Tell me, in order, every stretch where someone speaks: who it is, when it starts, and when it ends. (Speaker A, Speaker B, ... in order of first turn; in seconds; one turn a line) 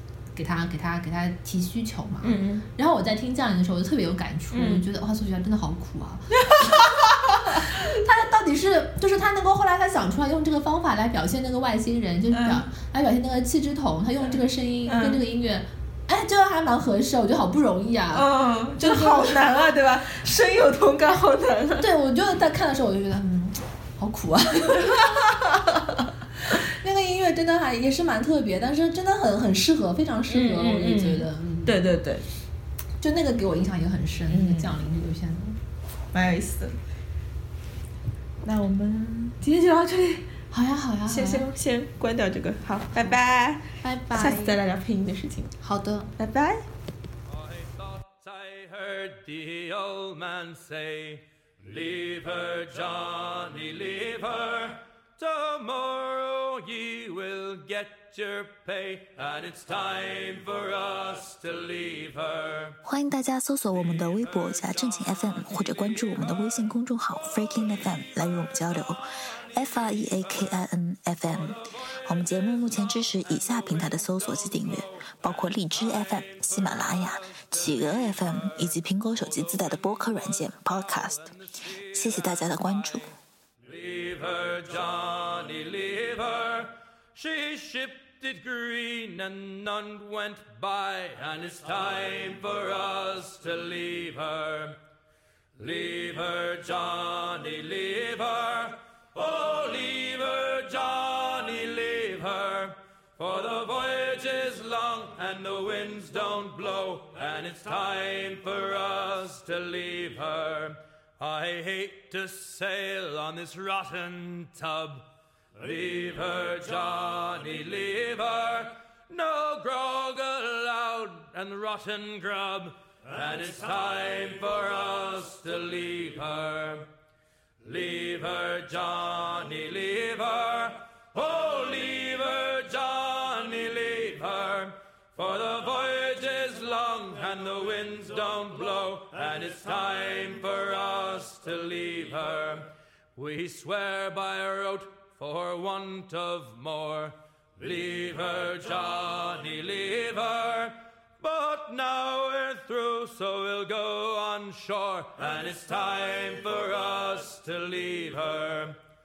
Speaker A: 0.3-19.4
Speaker B: 2.2-2.6
Speaker B: 4.5-4.8
Speaker B: 6.4-7.6
Speaker B: 12.3-12.7
Speaker B: 14.9-15.2
Speaker B: 18.1-21.9
Speaker A: 21.8-25.3
Speaker B: 25.0-26.0
Speaker A: 26.4-31.9
Speaker B: 30.3-32.2
Speaker A: 33.0-35.6
Speaker B: 34.3-34.8
Speaker B: 36.1-36.7
Speaker B: 38.4-40.3
Speaker A: 40.5-41.5
Speaker B: 41.0-45.5
Speaker A: 43.8-44.6
Speaker A: 45.6-46.1
Speaker B: 46.2-46.7
Speaker C: 47.3-62.8
Speaker D: 62.8-69.0
Speaker D: 69.5-81.3
Speaker C: 73.9-75.0
Speaker C: 76.2-78.4
Speaker C: 80.8-82.2
Speaker D: 81.9-83.1
Speaker C: 83.6-94.8
Speaker C: 95.6-115.0
Speaker C: 115.5-126.9
Speaker C: 127.6-158.8